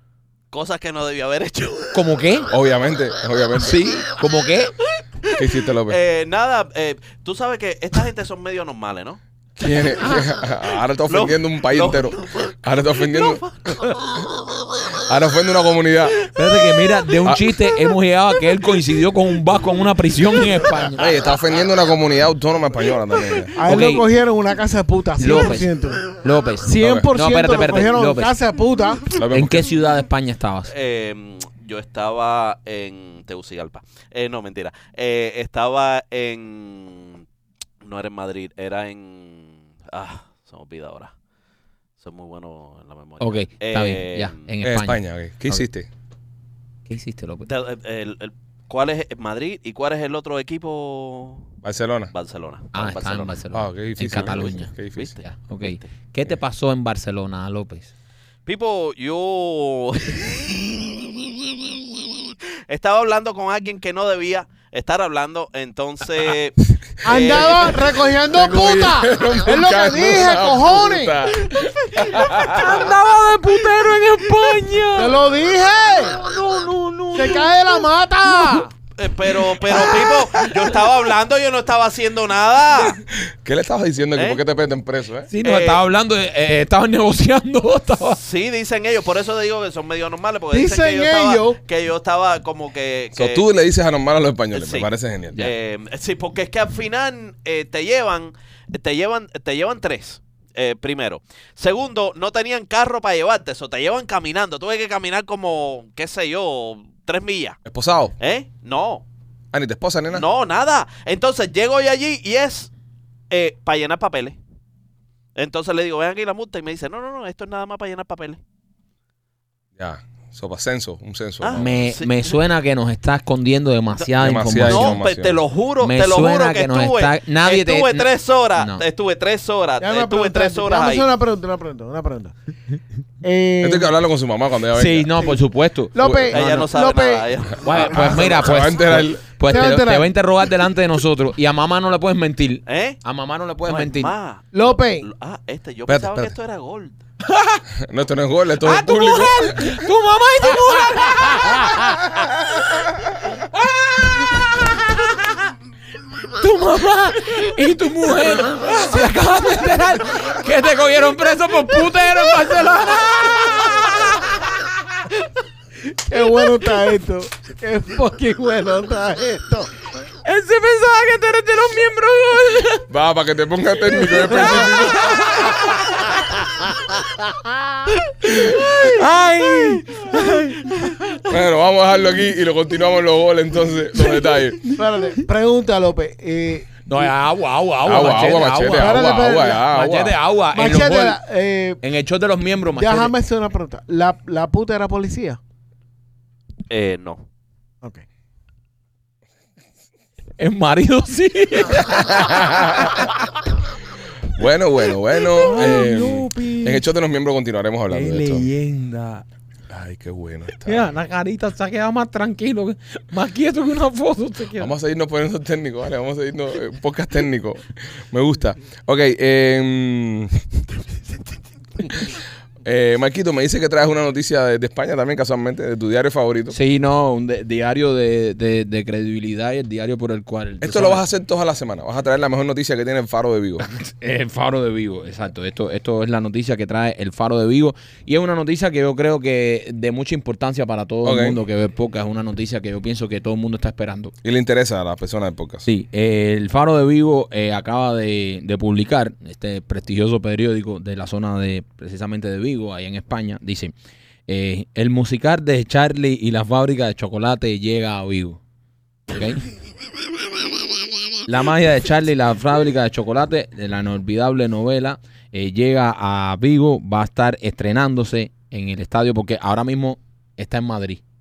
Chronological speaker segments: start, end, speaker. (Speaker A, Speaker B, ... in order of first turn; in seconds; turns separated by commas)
Speaker A: 0.5-2.1, Speaker B: 1.9-2.5, Speaker C: 2.5-3.8, Speaker B: 3.6-4.7, Speaker A: 5.2-9.2, Speaker C: 5.3-6.0, Speaker C: 9.6-13.4, Speaker A: 11.1-14.2, Speaker C: 15.0-16.2, Speaker B: 16.3-21.0, Speaker C: 20.9-23.5, Speaker A: 21.0-21.4, Speaker D: 23.5-29.1, Speaker B: 23.6-24.1, Speaker B: 25.2-28.3, Speaker C: 26.8-27.1, Speaker C: 29.1-29.7, Speaker B: 29.3-30.7, Speaker A: 30.7-37.2, Speaker A: 37.8-41.1, Speaker A: 42.0-44.5, Speaker B: 43.2-45.6, Speaker C: 44.6-45.9, Speaker B: 46.9-47.5, Speaker A: 47.5-51.5, Speaker C: 51.6-52.1, Speaker A: 52.1-53.4, Speaker B: 52.7-57.9, Speaker C: 53.5-55.1, Speaker A: 54.1-55.9, Speaker A: 58.5-68.0, Speaker D: 67.0-71.2, Speaker C: 67.2-72.9, Speaker A: 71.5-72.1, Speaker B: 72.1-75.2, Speaker D: 74.9-76.2, Speaker B: 76.2-78.6, Speaker D: 77.1-78.7, Speaker A: 79.0-83.0, Speaker C: 79.8-80.6, Speaker C: 82.8-85.3, Speaker A: 84.1-84.4, Speaker B: 85.3-88.2, Speaker A: 85.4-85.8, Speaker A: 88.1-93.4, Speaker D: 90.5-91.6, Speaker C: 93.1-95.4, Speaker A: 94.5-107.6, Speaker C: 107.7-108.1, Speaker A: 108.2-109.0, Speaker C: 109.5-110.2, Speaker A: 110.1-112.7, Speaker A: 113.3-114.4, Speaker A: 115.3-118.4, Speaker C: 119.8-121.8, Speaker A: 121.4-122.4, Speaker B: 121.6-125.0, Speaker C: 124.1-125.4, Speaker A: 124.7-131.1, Speaker B: 125.8-128.8, Speaker D: 129.8-132.3, Speaker D: 133.2-133.9, Speaker C: 133.6-135.1, Speaker B: 134.7-136.7, Speaker D: 135.9-138.6, Speaker A: 136.3-138.3, Speaker B: 137.6-144.1, Speaker C: 137.8-139.2, Speaker D: 139.4-140.1, Speaker A: 142.7-143.0, Speaker A: 143.6-147.0, Speaker D: 144.5-145.1, Speaker C: 145.9-146.3, Speaker B: 147.3-147.6, Speaker C: 147.7-149.7, Speaker B: 148.6-152.1, Speaker B: 153.9-155.1, Speaker B: 156.3-164.7, Speaker D: 166.1-169.7, Speaker B: 166.2-166.8, Speaker B: 170.2-172.8, Speaker C: 172.9-175.6, Speaker B: 173.9-176.1, Speaker D: 177.0-178.0, Speaker C: 178.2-178.7, Speaker B: 178.4-180.6, Speaker C: 181.2-184.6, Speaker D: 184.7-187.1, Speaker B: 186.8-189.0, Speaker C: 187.8-190.2, Speaker D: 188.7-189.7, Speaker B: 189.6-191.2, Speaker D: 190.5-191.8, Speaker B: 191.8-193.1, Speaker D: 192.7-195.4, Speaker A: 196.7-197.2, Speaker B: 200.4-203.1, Speaker C: 202.0-203.1, Speaker C: 204.3-208.5, Speaker B: 205.3-206.8, Speaker B: 207.9-209.2, Speaker C: 209.7-210.9, Speaker B: 210.6-214.7, Speaker C: 214.6-220.4, Speaker C: 221.8-226.6, Speaker B: 226.5-231.0, Speaker C: 230.6-233.6, Speaker B: 233.6-244.1, Speaker C: 241.0-241.4, Speaker C: 244.2-245.7, Speaker B: 245.7-253.7, Speaker B: 254.3-258.4, Speaker B: 259.1-259.4, Speaker B: 261.2-271.0